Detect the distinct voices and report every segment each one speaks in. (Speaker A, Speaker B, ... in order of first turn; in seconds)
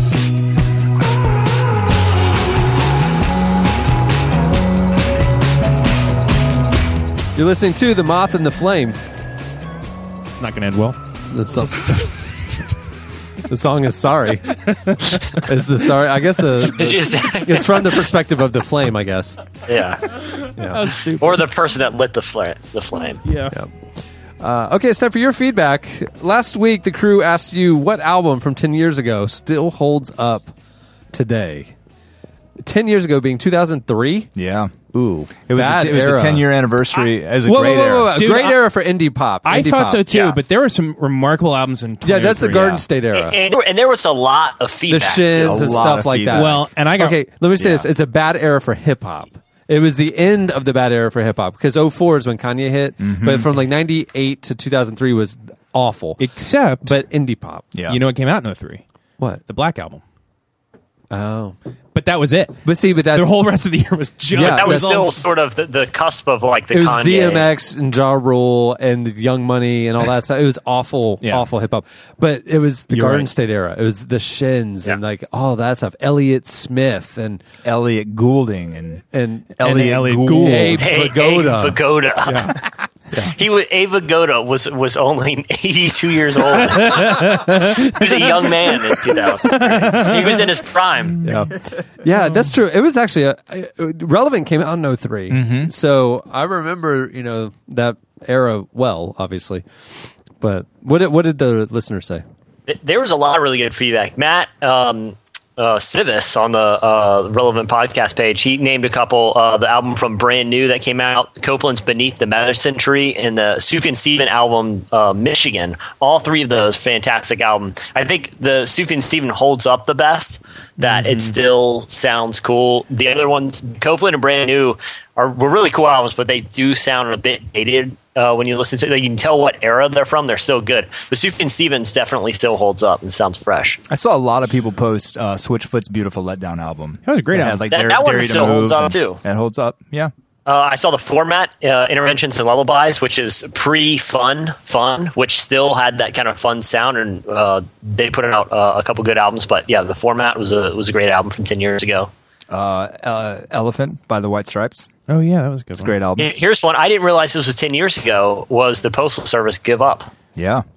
Speaker A: 7.3-9.0, 11.3-12.2, 13.5-14.5, 15.3-19.4, 20.6-20.9, 24.4-30.5, 31.1-31.7, 32.6-34.3, 34.9-36.5, 37.4-40.0, 42.0-43.4, 44.9-56.2, 56.8-57.6, 61.1-61.5, 62.6-63.4, 64.3-65.1, 66.7-77.4, 79.1-82.5, 91.2-91.5, 92.0-99.6, 100.4-102.2
Speaker B: 10.3-11.0, 14.6-15.4, 20.7-21.5, 23.2-23.5, 38.1-38.7, 39.5-42.9, 46.3-47.2, 56.2-57.0, 57.9-58.8, 59.4-60.0, 61.9-65.2, 71.2-71.5, 72.9-73.3, 79.7-80.8, 86.5-90.6, 120.8-121.2, 137.0-137.6, 155.1-155.9
Speaker C: 16.6-18.0, 19.6-20.2, 21.1-23.2, 40.1-40.4, 43.1-45.8, 64.4-67.5, 80.7-82.6, 83.3-91.2, 102.7-133.8, 137.7-139.2, 140.4-152.1, 156.2-160.1
Speaker D: 34.4-34.7, 35.5-38.1, 45.3-46.6, 47.6-47.9, 53.0-53.5, 57.7-58.0, 77.6-79.0, 79.6-80.7, 95.3-95.7, 133.9-140.1, 152.5-154.9, 155.8-156.3, 160.3-160.6